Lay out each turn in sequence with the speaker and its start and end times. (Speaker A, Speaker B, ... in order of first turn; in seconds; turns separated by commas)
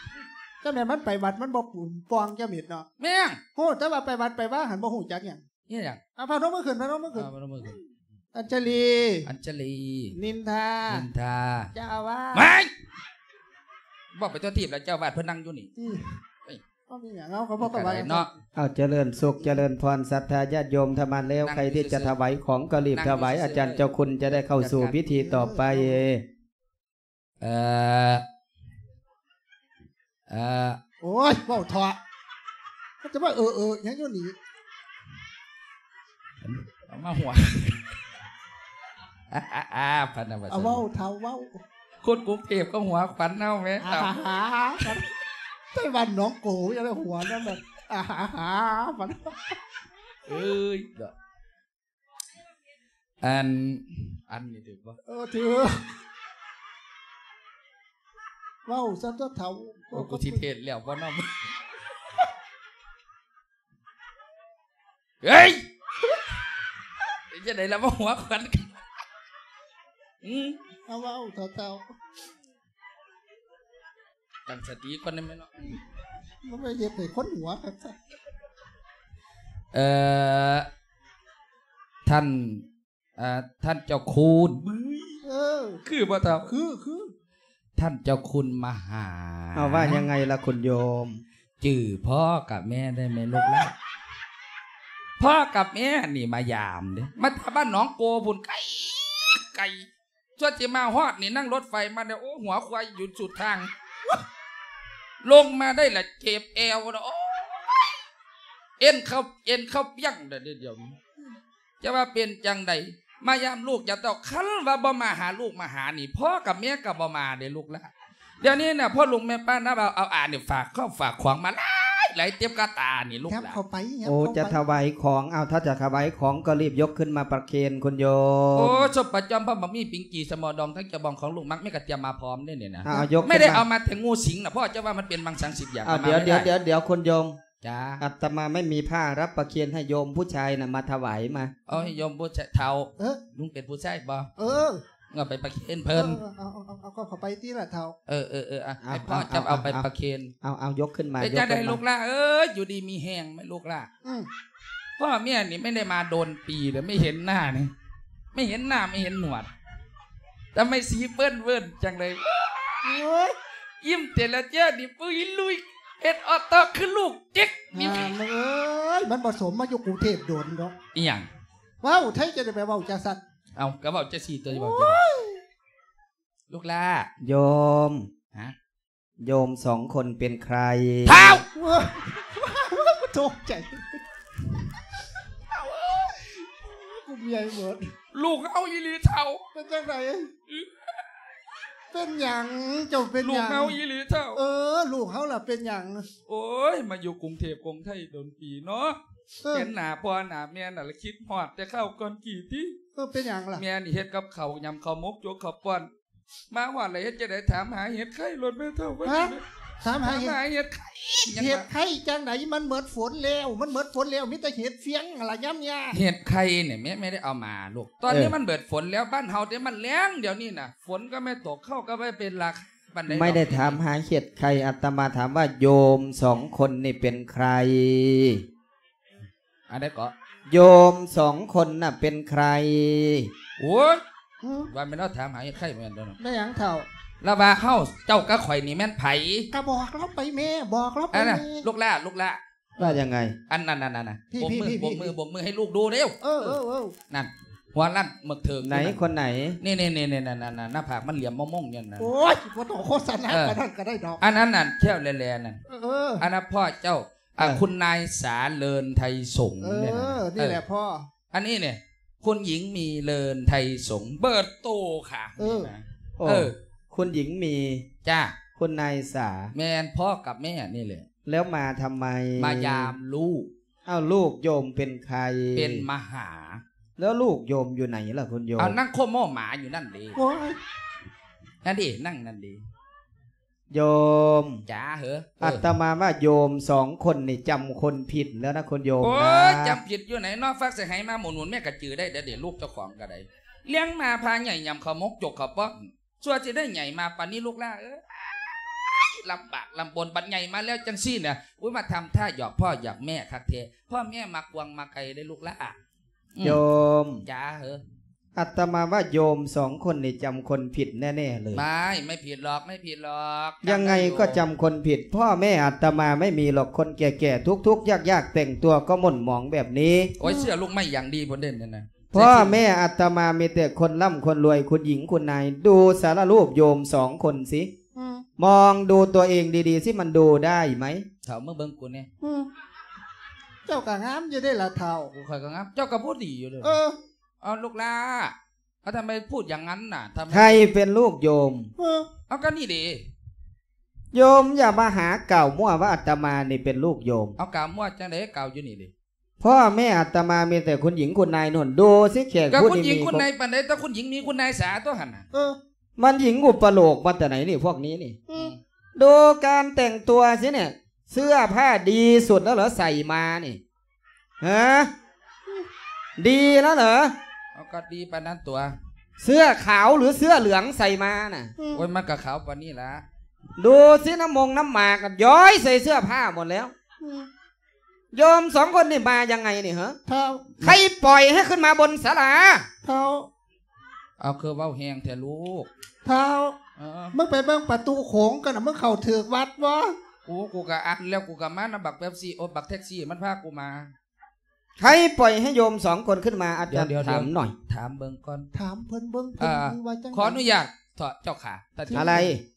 Speaker A: 0.6-2.9, Speaker B: 3.0-3.4, Speaker A: 3.5-5.4, Speaker B: 5.7-6.0, Speaker A: 6.2-7.3, Speaker B: 7.1-7.8, Speaker A: 8.3-9.3, Speaker B: 9.2-10.2, Speaker A: 10.1-11.1, Speaker B: 10.9-11.7, Speaker A: 11.7-12.5, Speaker B: 12.3-12.7, Speaker B: 14.1-15.7, Speaker A: 15.8-16.2, Speaker A: 16.9-18.3, Speaker B: 17.6-18.3, Speaker C: 18.6-26.2, Speaker B: 21.4-22.1, Speaker B: 22.9-23.8, Speaker B: 24.5-25.0, Speaker A: 25.1-26.0, Speaker B: 27.4-28.2, Speaker B: 30.3-30.8, Speaker A: 31.0-32.0, Speaker A: 33.0-34.4, Speaker B: 36.4-37.9, Speaker B: 39.3-40.8, Speaker A: 40.5-41.6, Speaker B: 42.0-44.1, Speaker A: 43.8-45.0, Speaker A: 45.7-49.6, Speaker B: 50.3-51.1, Speaker B: 53.2-55.0, Speaker A: 55.1-55.9, Speaker A: 58.6-60.4, Speaker B: 59.9-61.5, Speaker B: 65.2-65.6, Speaker B: 67.3-68.8, Speaker B: 70.2-70.6, Speaker A: 70.9-71.9, Speaker B: 74.5-75.7, Speaker A: 76.4-78.0, Speaker B: 79.7-80.7, Speaker B: 82.0-82.6, Speaker B: 83.2-85.2, Speaker A: 85.2-85.8, Speaker B: 85.8-86.5, Speaker A: 86.5-87.1, Speaker B: 87.8-90.0, Speaker C: 89.5-91.2, Speaker B: 91.6-93.7, Speaker B: 95.2-104.1, Speaker B: 105.2-107.9, Speaker B: 108.8-111.0, Speaker B: 111.8-123.6, Speaker A: 123.3-124.6, Speaker C: 124.0-128.9, Speaker B: 128.6-136.5, Speaker C: 132.8-133.6, Speaker C: 135.8-137.3, Speaker B: 137.6-138.0, Speaker C: 138.0-141.5, Speaker B: 141.7-144.3, Speaker A: 144.4-144.8, Speaker B: 145.1-146.2, Speaker A: 145.9-147.9, Speaker B: 148.1-150.3, Speaker C: 148.8-149.9, Speaker C: 150.4-151.8, Speaker B: 151.2-153.9, Speaker A: 154.0-154.3, Speaker B: 155.0-157.7, Speaker B: 158.3-159.5, Speaker B: 160.5-163.0, Speaker A: 162.8-163.3, Speaker B: 163.8-168.1, Speaker A: 167.7-170.8, Speaker B: 170.9-171.3, Speaker A: 171.8-173.2, Speaker B: 173.6-175.0, Speaker A: 174.5-175.4, Speaker B: 176.5-177.1, Speaker C: 177.2-178.1, Speaker C: 179.2-181.4, Speaker B: 181.1-181.4, Speaker A: 181.5-184.1, Speaker A: 186.0-187.9, Speaker B: 188.1-189.4, Speaker A: 189.5-190.3, Speaker B: 190.5-190.9, Speaker A: 191.9-193.8, Speaker B: 193.2-194.4, Speaker A: 194.3-196.1, Speaker B: 196.3-199.0, Speaker A: 199.4-199.7, Speaker B: 199.5-202.8, Speaker A: 202.9-203.6, Speaker B: 203.5-205.9, Speaker B: 206.5-209.4, Speaker A: 209.0-210.4, Speaker B: 210.0-211.7, Speaker A: 211.3-216.0, Speaker B: 215.9-223.8, Speaker C: 218.1-218.3, Speaker C: 223.1-228.4, Speaker B: 229.7-230.1, Speaker C: 230.5-233.3, Speaker B: 233.6-234.0, Speaker A: 234.4-234.7, Speaker B: 234.7-236.2, Speaker A: 236.2-236.9, Speaker B: 237.2-239.5, Speaker A: 239.5-241.6, Speaker B: 241.1-246.6, Speaker C: 242.8-243.3, Speaker A: 244.3-245.1, Speaker A: 246.2-246.9, Speaker B: 247.1-249.0, Speaker C: 248.6-249.6, Speaker B: 249.6-252.1, Speaker A: 252.0-254.2, Speaker B: 253.3-253.6, Speaker B: 254.2-255.6, Speaker A: 255.7-256.2, Speaker B: 256.2-260.6, Speaker A: 259.6-261.1, Speaker B: 261.3-266.5, Speaker A: 265.4-265.7, Speaker C: 266.2-267.9, Speaker B: 268.0-268.4, Speaker C: 268.6-269.5, Speaker B: 269.5-271.1, Speaker C: 271.2-272.9, Speaker B: 272.4-273.5, Speaker C: 273.9-275.9, Speaker B: 275.5-276.6, Speaker C: 277.0-278.8, Speaker B: 278.6-280.2, Speaker A: 280.1-280.6, Speaker B: 281.6-282.6, Speaker C: 283.7-284.6, Speaker B: 284.7-285.7, Speaker C: 285.4-289.8, Speaker B: 289.0-305.8, Speaker C: 306.4-307.2, Speaker B: 307.2-307.8, Speaker C: 308.3-311.6, Speaker B: 311.5-314.4, Speaker C: 313.6-320.1, Speaker B: 320.2-322.6, Speaker A: 320.2-320.5, Speaker C: 322.1-327.7, Speaker A: 327.9-328.2, Speaker C: 328.4-331.0, Speaker B: 331.2-332.1, Speaker A: 332.2-332.5, Speaker A: 333.6-335.1, Speaker B: 335.1-336.8, Speaker A: 336.6-337.0, Speaker B: 337.4-340.6, Speaker C: 340.3-341.7, Speaker A: 341.8-342.1, Speaker B: 342.3-343.0, Speaker C: 344.1-347.4, Speaker B: 347.4-348.9, Speaker C: 349.4-353.2, Speaker B: 352.5-355.2, Speaker A: 355.3-355.6, Speaker C: 356.0-358.2, Speaker B: 358.3-358.6, Speaker C: 358.9-363.6, Speaker C: 364.4-364.9, Speaker C: 366.2-367.1, Speaker B: 367.5-368.7, Speaker C: 369.2-371.5, Speaker A: 371.6-371.8, Speaker B: 371.7-373.0, Speaker C: 373.6-376.7, Speaker A: 377.0-377.3, Speaker C: 378.1-380.0, Speaker A: 380.1-380.6, Speaker C: 380.6-382.7, Speaker A: 382.8-383.3, Speaker B: 384.2-385.7, Speaker A: 386.0-386.6, Speaker B: 386.8-387.1, Speaker A: 387.1-389.9, Speaker B: 390.3-393.9, Speaker C: 394.8-397.5, Speaker B: 396.7-398.5, Speaker A: 398.5-400.4, Speaker B: 399.4-402.3, Speaker A: 401.9-402.2, Speaker C: 401.9-402.4